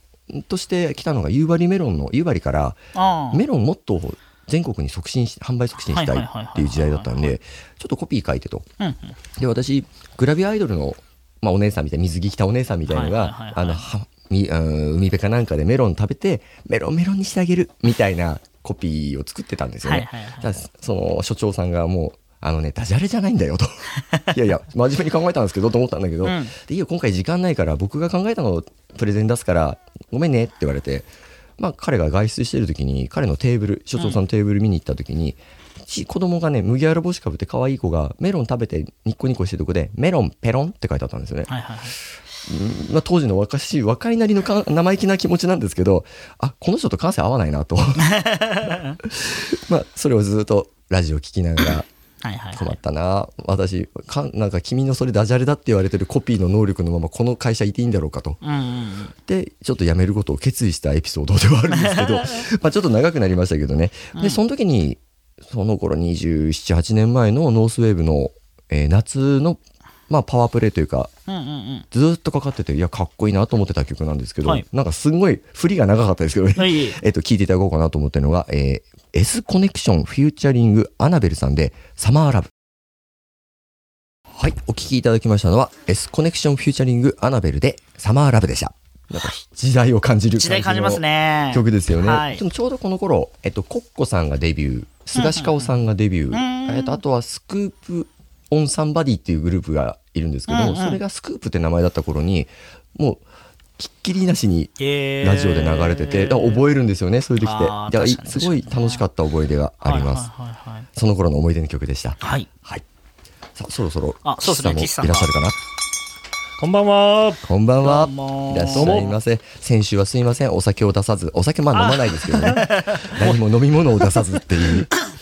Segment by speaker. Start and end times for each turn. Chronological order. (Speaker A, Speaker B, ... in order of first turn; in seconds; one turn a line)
Speaker A: 0.3-2.8
Speaker B: 2.9-3.4
Speaker A: 3.3-8.7
Speaker B: 5.9-7.2
Speaker B: 8.8-9.2
Speaker A: 9.3-41.5
Speaker B: 12.9-13.8
Speaker B: 19.8-20.5
Speaker B: 26.2-26.5
Speaker B: 41.5-42.0
Speaker A: 42.5-48.1
Speaker B: 48.0-49.0
Speaker A: 49.0-51.9
Speaker B: 52.2-52.8
Speaker A: 52.5-58.4
Speaker B: 58.4-59.1
Speaker A: 59.2-71.1
Speaker B: 61.7-62.4
Speaker B: 64.1-64.4
Speaker B: 71.3-71.8
Speaker A: 71.9-82.5
Speaker B: 76.5-77.0
Speaker A: 84.3-103.2
Speaker B: 90.4-92.4
Speaker B: 95.1-95.7
Speaker B: 96.3-97.0
Speaker B: 100.5-101.0
Speaker A: 103.8-110.3
Speaker B: 104.8-106.6
Speaker B: 107.4-109.0
Speaker B: 109.8-110.9
Speaker A: 110.9-112.8
Speaker B: 112.2-112.5
Speaker A: 113.5-115.6
Speaker B: 114.2-115.3
Speaker C: 116.6-117.4
Speaker A: 117.4-124.9
Speaker B: 117.8-119.1
Speaker C: 118.7-119.1
Speaker C: 121.7-122.6
Speaker B: 122.4-123.2